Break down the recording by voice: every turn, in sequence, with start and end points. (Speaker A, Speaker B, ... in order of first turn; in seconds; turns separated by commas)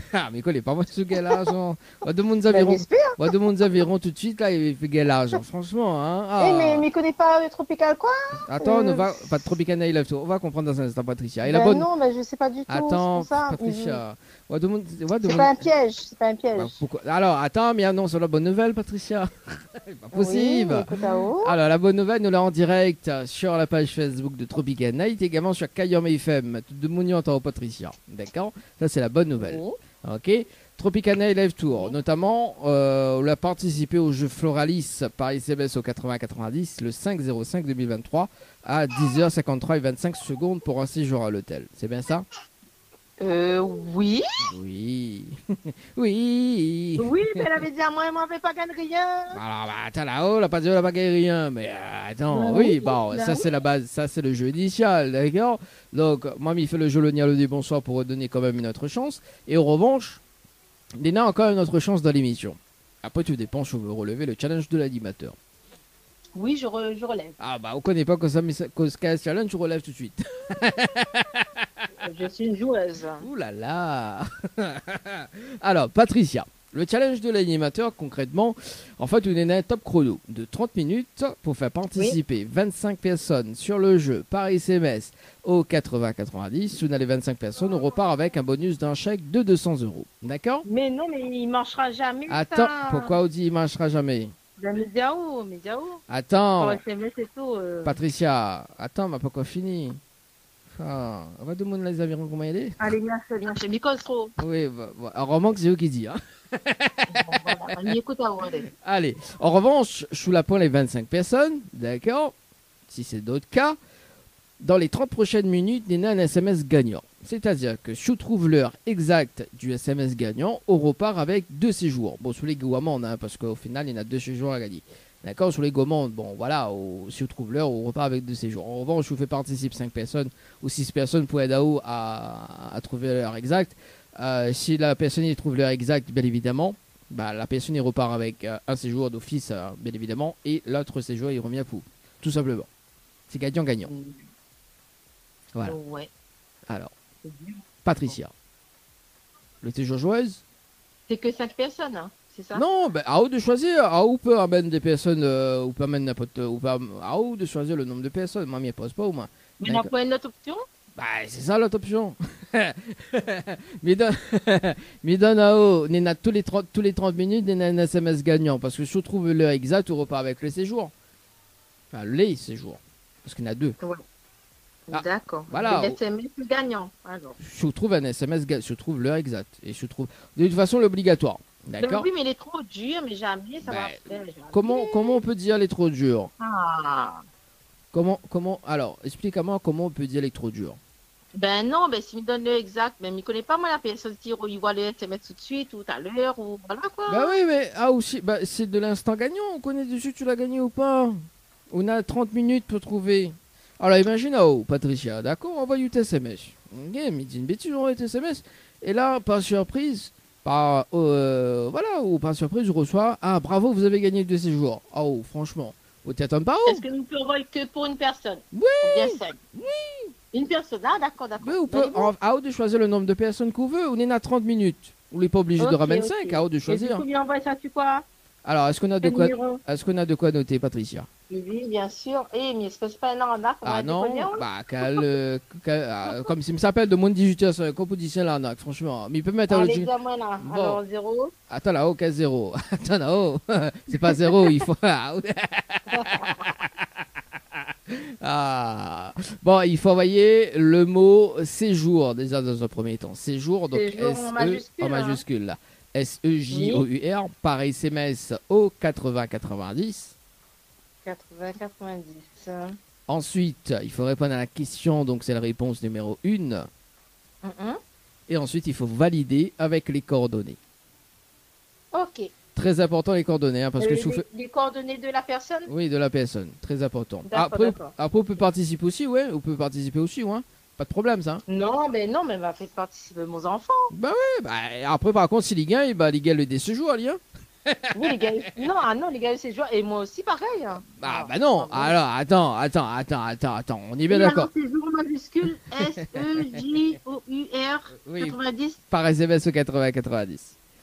Speaker A: 0.1-6.8, Speaker B: 2.5-3.3, Speaker B: 6.4-9.2, Speaker A: 8.5-11.8, Speaker B: 11.4-14.0, Speaker A: 12.7-15.6, Speaker B: 15.2-16.8, Speaker A: 16.5-42.2, Speaker B: 20.1-21.6, Speaker B: 29.4-29.8, Speaker B: 43.2-44.2, Speaker A: 44.4-45.4, Speaker A: 46.0-47.1, Speaker B: 47.0-49.4, Speaker A: 49.3-60.2, Speaker B: 52.3-53.4, Speaker A: 61.0-65.4, Speaker B: 66.3-67.3, Speaker A: 67.4-71.4, Speaker B: 72.0-73.2, Speaker A: 73.2-90.7, Speaker B: 87.6-87.8, Speaker B: 90.6-93.1, Speaker A: 92.3-94.3, Speaker B: 94.6-96.0, Speaker A: 96.1-96.8, Speaker B: 96.6-98.0, Speaker A: 97.8-100.0, Speaker A: 100.8-102.8, Speaker B: 102.8-104.3, Speaker A: 104.4-107.9, Speaker B: 107.1-108.7, Speaker A: 108.8-112.3, Speaker A: 112.9-113.8, Speaker A: 114.6-142.7, Speaker A: 143.3-143.9, Speaker B: 143.8-144.2, Speaker B: 145.6-146.1, Speaker B: 147.2-148.1, Speaker A: 147.8-148.3, Speaker A: 149.6-150.4, Speaker B: 151.1-152.6, Speaker A: 152.5-159.9, Speaker B: 159.6-160.6, Speaker A: 161.0-170.9, Speaker A: 171.9-173.8, Speaker B: 174.9-177.4, Speaker A: 174.9-176.0, Speaker A: 177.4-182.1, Speaker B: 181.8-185.1, Speaker A: 183.6-186.3, Speaker B: 186.4-187.2, Speaker A: 187.9-190.8, Speaker B: 191.3-197.4, Speaker A: 197.1-201.2, Speaker A: 201.7-216.8, Speaker B: 216.6-219.4, Speaker A: 218.5-220.1, Speaker B: 220.3-222.1, Speaker A: 221.4-227.0, Speaker B: 225.6-228.0, Speaker A: 228.4-231.1, Speaker B: 229.0-229.6, Speaker B: 231.3-235.0, Speaker A: 233.6-240.8, Speaker B: 239.5-241.3, Speaker A: 241.5-246.7, Speaker B: 244.1-244.5, Speaker B: 245.9-246.4, Speaker A: 247.9-260.1, Speaker B: 253.7-255.2, Speaker B: 256.5-256.9, Speaker B: 261.0-262.8, Speaker A: 263.1-266.7, Speaker B: 267.4-267.8, Speaker A: 268.3-270.6, Speaker B: 271.9-272.3, Speaker A: 272.6-274.2, Speaker B: 273.8-275.7, Speaker A: 275.7-281.4, Speaker B: 277.2-277.9, Speaker B: 281.5-283.9, Speaker A: 283.9-288.2, Speaker B: 287.9-291.9, Speaker A: 290.9-294.5, Speaker B: 294.1-298.8, Speaker A: 296.1-296.6, Speaker A: 297.9-298.4, Speaker A: 298.9-300.6